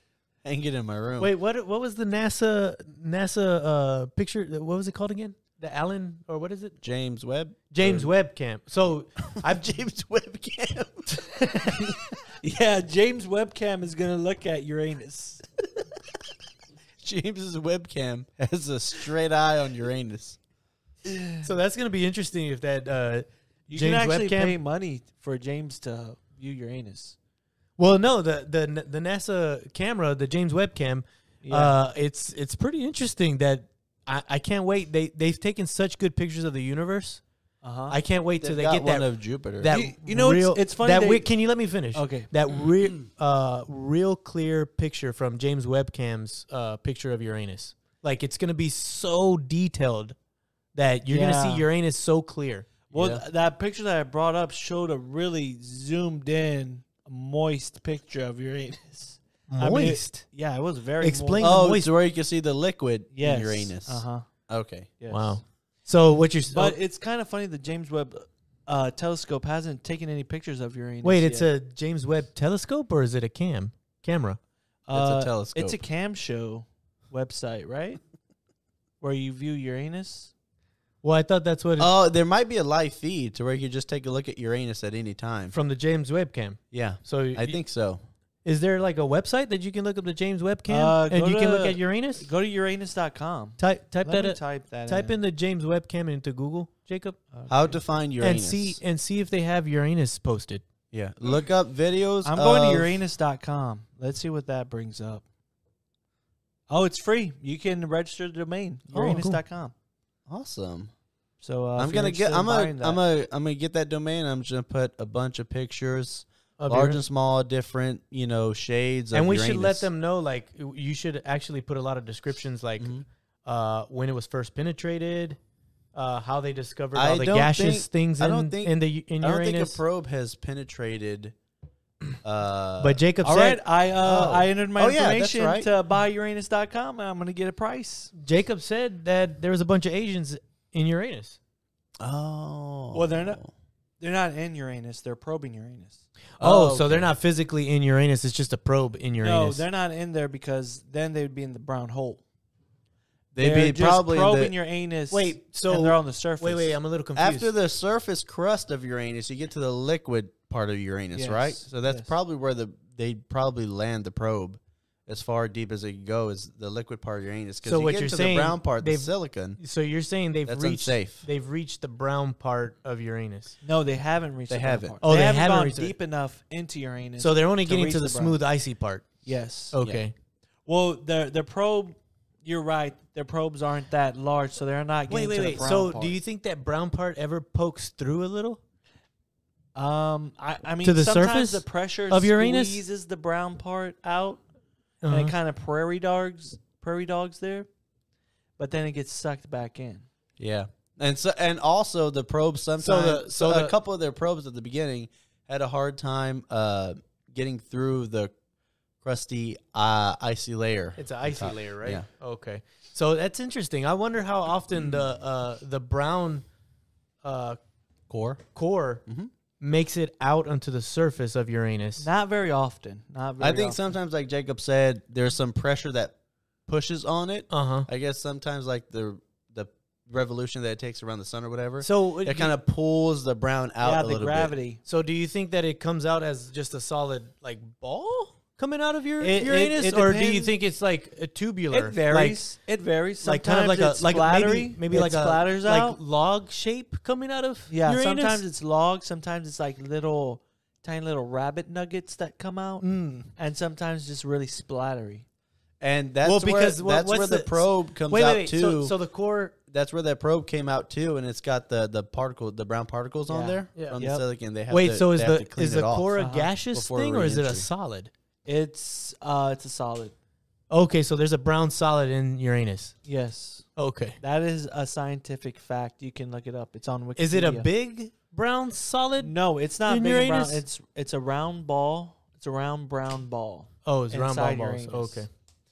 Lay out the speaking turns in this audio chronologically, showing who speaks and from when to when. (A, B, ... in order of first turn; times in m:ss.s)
0:00.4-0:01.3 A
0:01.2-0:06.8 B
0:06.8-0:08.1 A
0:07.7-0:09.8 B
0:09.4-0:11.3 A
0:12.4-0:15.4 C
0:17.0-0:20.4 A
0:21.0-0:21.5 C
0:21.4-0:24.6 B
0:23.7-0:27.2 C
0:27.8-0:37.2 B
0:31.4-0:31.8 C
0:37.6-0:38.0 C
0:37.9-0:39.1 B
0:38.4-0:39.7 A
0:39.6-0:50.2 B
0:39.7-0:41.3 C
0:41.9-0:42.3 C
0:50.8-0:52.8 B
0:51.1-0:51.7 C
0:52.9-1:01.5 C
0:52.9-0:53.2 A
0:59.5-1:00.2 B
1:01.0-1:01.9 B
1:01.4-1:04.9 A
1:03.1-1:04.3 C
1:05.0-1:05.4 C
1:05.1-1:06.8 B
1:06.5-1:11.5 C
1:11.0-1:14.4 B
1:14.9-1:18.0 C
1:14.9-1:15.8 A
1:19.0-1:20.3 C
1:21.0-1:21.9 B
1:21.8-1:25.6 A
1:25.5-1:27.6 B
1:26.7-1:28.0 A
1:28.4-1:32.3 B
1:30.7-1:35.1 C
1:33.6-1:37.2 B
1:37.3-1:37.8 C
1:37.5-1:38.8 A
1:38.2-1:40.6 B
1:40.9-1:43.0 A
1:42.2-1:45.2 C
1:46.7-1:49.7 C
1:48.9-1:49.4 B
1:50.3-1:50.9 A
1:51.4-1:53.0 C
1:51.8-1:59.9 A
1:56.6-1:57.0 B
1:59.1-2:02.9 B
2:02.8-2:03.0 A
2:03.5-2:05.4 B
2:06.0-2:09.8 B
2:07.0-2:11.4 A
2:12.2-2:13.0 A
2:12.8-2:13.6 B
2:13.2-2:18.1 C
2:14.0-2:15.7 A
2:18.2-2:21.4 B
2:22.0-2:23.5 A
2:22.9-2:23.4 C
2:24.0-2:26.0 C
2:26.4-2:29.6 B
2:26.4-2:27.1 A
2:29.2-2:32.2 C
2:33.3-2:34.5 A
2:33.4-2:36.7 C
2:35.1-2:37.5 B
2:37.2-2:49.6 A
2:41.1-2:42.1 C
2:47.6-2:53.6 B
2:50.5-2:51.2 A
2:53.6-2:58.4 C
2:54.5-2:55.0 A
2:55.0-2:55.9 B
2:57.2-2:59.1 B
2:59.2-2:59.8 C
2:59.7-3:00.1 B
3:00.7-3:06.2 C
3:05.1-3:08.6 B
3:09.8-3:14.4 C
3:10.8-3:12.8 B
3:15.0-3:15.4 B
3:15.1-3:17.7 C
3:18.6-3:20.1 C
3:20.4-3:28.3 A
3:22.8-3:23.7 B
3:29.0-3:32.1 A
3:31.0-3:36.4 B
3:34.8-3:35.1 A
3:37.2-3:37.6 B
3:38.1-3:38.4 A
3:38.6-3:39.0 B
3:39.6-3:42.1 B
3:42.0-3:43.9 C
3:43.4-3:46.2 A
3:46.7-3:54.5 A
3:47.5-3:47.9 B
3:51.8-3:52.5 B
3:53.8-3:54.8 C
3:54.9-4:02.4 B
3:59.2-4:00.5 C
4:01.7-4:06.0 C
4:03.2-4:08.4 B
4:07.7-4:15.2 C
4:12.8-4:13.3 B
4:15.8-4:19.0 A
4:16.2-4:19.6 B
4:19.7-4:26.2 A
4:23.3-4:24.2 C
4:23.8-4:24.0 B
4:24.7-4:28.1 B
4:26.2-4:26.5 C
4:26.7-4:27.7 A
4:28.5-4:30.2 C
4:30.7-4:33.0 B
4:33.1-4:33.7 C
4:33.8-4:34.2 B
4:34.2-4:37.7 C
4:37.2-4:39.3 B
4:39.2-4:45.3 C
4:39.9-4:40.6 B
4:43.9-4:45.3 B